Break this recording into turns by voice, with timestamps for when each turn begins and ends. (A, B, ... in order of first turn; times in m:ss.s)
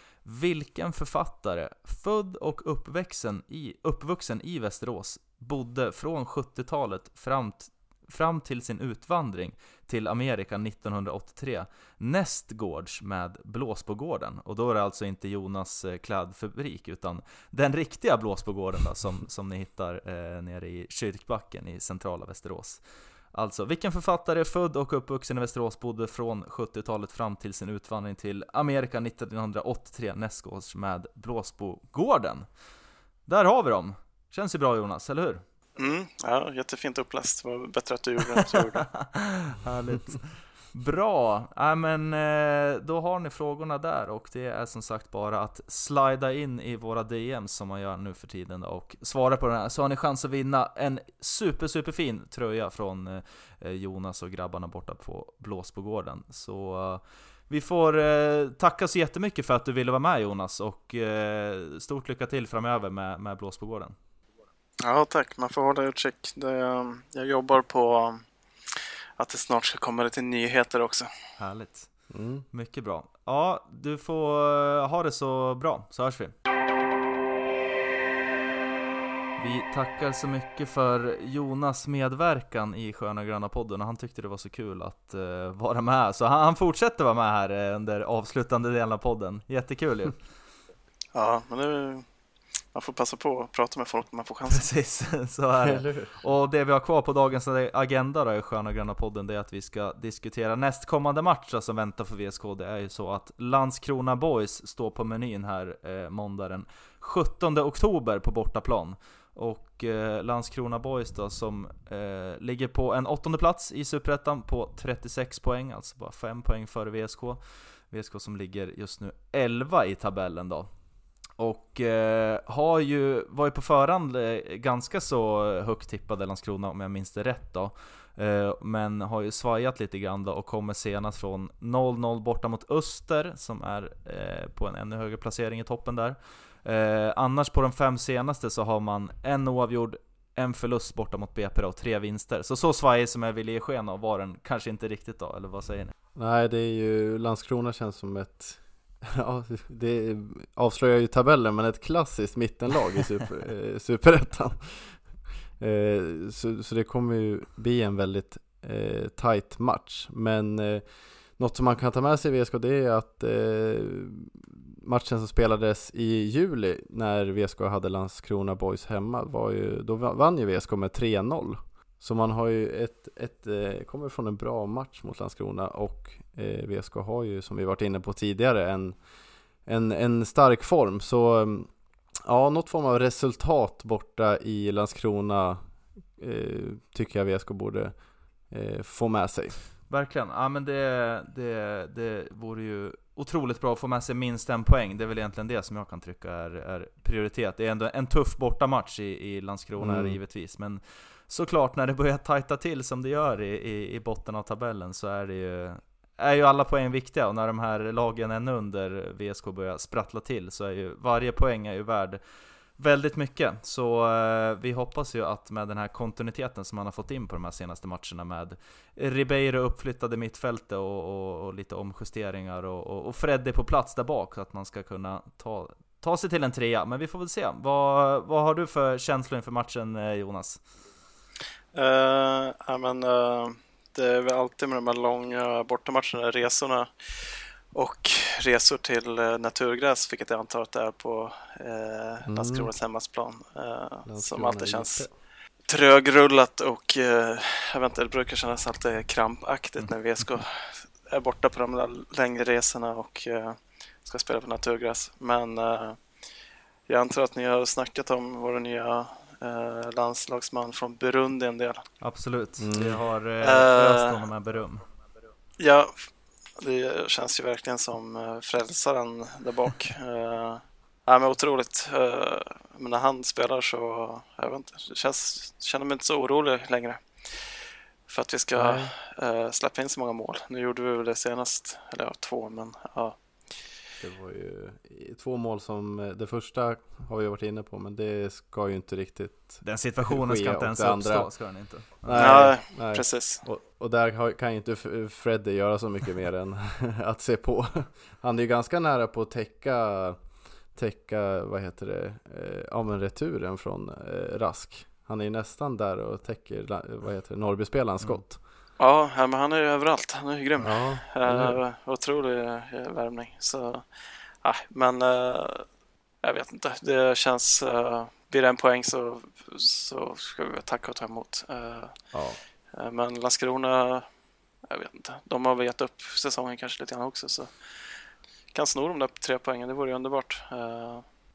0:00.2-0:22.8 A
0:23.3-0:32.4 A
0:33.3-0:35.4 A
0:35.8-0:38.9 B
0:38.4-1:03.9 A
1:04.8-1:11.1 B
1:11.4-1:11.9 A
1:12.1-1:12.4 C
1:12.5-1:16.3 A
1:19.4-1:30.2 A
1:31.1-1:32.0 B
1:32.7-1:34.7 B
1:34.5-2:00.7 A
1:35.6-1:36.2 C
2:01.4-2:25.9 A
2:26.2-2:35.0 C
2:35.6-2:40.8 C
2:41.4-2:59.0 C
2:59.6-3:01.7 C
3:02.2-3:05.6 C
3:06.2-3:07.9 C
3:08.5-3:09.6 C
3:09.9-3:32.2 A
3:19.8-3:20.2 C
3:32.8-3:50.6 A
3:51.7-4:05.1 B
4:02.3-4:02.7 C
4:04.0-4:05.1 C
4:05.7-4:16.0 B
4:16.9-4:21.8 B
4:22.0-4:24.8 A
4:22.6-4:23.0 C
4:23.4-4:24.2 B
4:25.6-4:37.6 B
4:38.1-4:43.2 B
4:38.5-4:38.9 C
4:44.0-4:51.3 C
4:49.6-4:52.5 A
4:52.0-5:00.2 C
4:52.1-4:53.4 B
5:00.7-5:08.4 C
5:08.8-5:13.9 B
5:10.6-5:11.6 C
5:14.4-5:15.7 B
5:16.2-5:22.1 B
5:22.1-5:22.4 C
5:22.7-5:24.1 B
5:24.6-5:27.7 B
5:28.5-5:31.0 B